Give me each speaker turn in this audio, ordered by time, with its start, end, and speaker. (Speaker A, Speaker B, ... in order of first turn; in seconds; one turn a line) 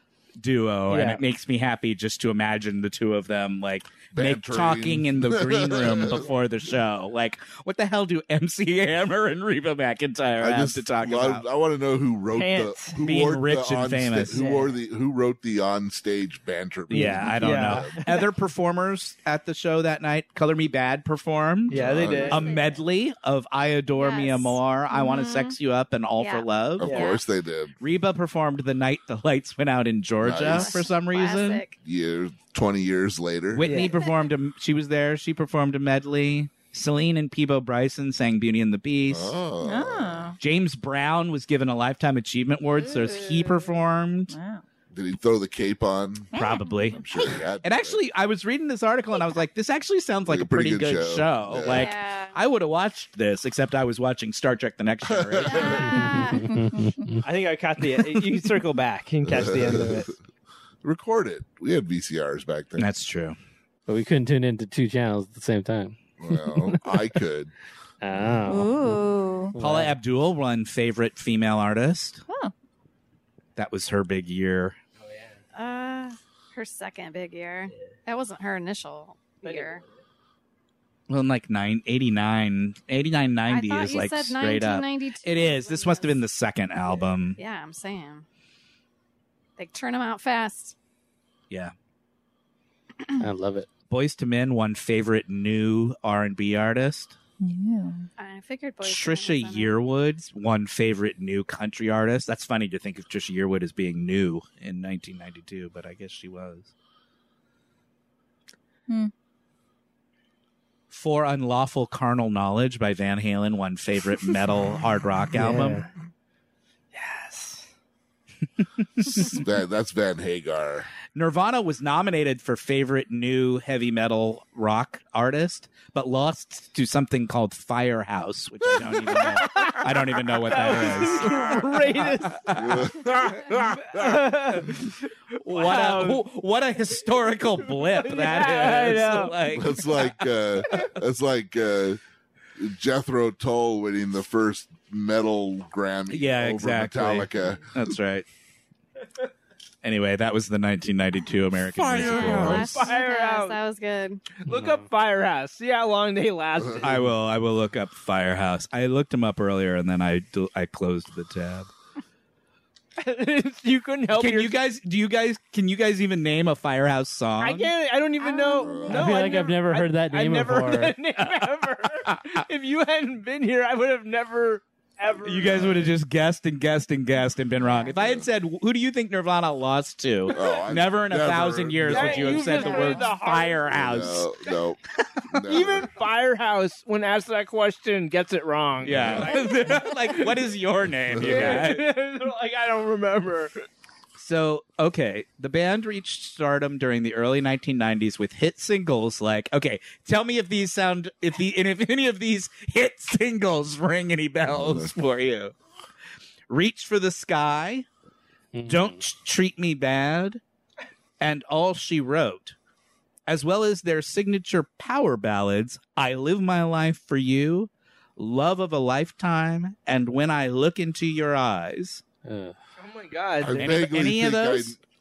Speaker A: 0.4-11.4
Speaker B: 0.9-1.2
Speaker C: 4.1-6.3
Speaker C: 10.4-18.0
Speaker B: 12.3-13.0
Speaker A: 13.1-14.4
Speaker B: 14.3-14.7
Speaker A: 16.9-27.0
Speaker B: 16.9-18.3
Speaker B: 21.7-22.3
Speaker C: 21.7-22.4
Speaker D: 22.0-22.8
Speaker D: 24.0-25.5
Speaker D: 26.2-27.2
Speaker C: 26.8-27.7
Speaker A: 27.8-31.6
Speaker C: 30.2-30.8
Speaker D: 30.5-31.8
Speaker C: 31.8-33.8
Speaker A: 33.5-39.4
Speaker D: 33.8-34.1
Speaker C: 39.1-40.3
Speaker E: 39.6-40.4
Speaker A: 40.4-44.3
Speaker D: 42.8-43.7
Speaker E: 44.3-44.6
Speaker C: 44.9-46.3
Speaker E: 46.3-47.3
Speaker A: 46.3-47.0
Speaker C: 46.9-48.0
Speaker A: 47.6-56.0
Speaker C: 50.3-51.9
Speaker D: 51.6-52.4
Speaker C: 55.0-56.0
Speaker D: 55.4-56.5
Speaker F: 56.0-57.2
Speaker B: 57.2-60.1
Speaker C: 59.3-60.1
Speaker C: 60.8-62.9
Speaker A: 62.8-63.4
Speaker F: 63.9-66.0
Speaker C: 66.2-67.5
Speaker F: 68.0-70.0
Speaker E: 68.5-69.5
Speaker A: 69.6-72.2
Speaker A: 73.5-74.8
Speaker B: 75.0-75.4
Speaker D: 75.5-79.8
Speaker B: 79.4-79.8
Speaker A: 81.1-87.4
Speaker D: 83.5-86.2
Speaker D: 87.3-88.2
Speaker D: 89.6-90.7
Speaker F: 93.2-93.7
Speaker A: 93.9-97.2
Speaker E: 97.4-98.1
Speaker D: 98.2-99.8
Speaker A: 98.8-106.7
Speaker A: 110.9-115.8
Speaker B: 115.3-115.9
Speaker B: 116.9-117.7
Speaker A: 119.0-119.4
Speaker C: 119.2-120.9
Speaker A: 121.1-134.1
Speaker B: 129.1-136.2
Speaker C: 132.6-134.0
Speaker A: 135.4-140.4
Speaker B: 137.6-139.4
Speaker C: 139.5-142.0
Speaker C: 142.6-147.6
Speaker A: 146.1-148.3
Speaker A: 149.8-152.8
Speaker C: 151.7-152.8
Speaker D: 152.0-154.4
Speaker B: 152.2-153.6
Speaker B: 154.4-157.1
Speaker F: 154.5-154.8
Speaker A: 156.8-161.7
Speaker B: 163.0-164.6
Speaker A: 164.1-167.7
Speaker B: 167.4-175.9
Speaker E: 168.2-169.4
Speaker C: 168.6-169.2
Speaker F: 168.9-171.0
Speaker A: 172.0-172.4
Speaker A: 175.2-184.3
Speaker C: 177.7-178.3
Speaker C: 180.3-182.7
Speaker B: 181.8-183.7
Speaker C: 183.7-184.8
Speaker C: 185.3-185.9
Speaker B: 185.4-190.4
Speaker A: 188.8-191.9
Speaker C: 188.9-189.3
Speaker C: 191.1-191.6
Speaker B: 191.2-193.5
Speaker A: 194.2-205.5
Speaker C: 204.4-204.9
Speaker A: 206.5-207.9
Speaker F: 208.5-209.0
Speaker A: 208.6-210.4
Speaker A: 211.2-212.6
Speaker A: 213.3-222.0
Speaker F: 222.2-222.6
Speaker B: 222.8-223.7
Speaker C: 223.4-224.8
Speaker A: 223.5-224.8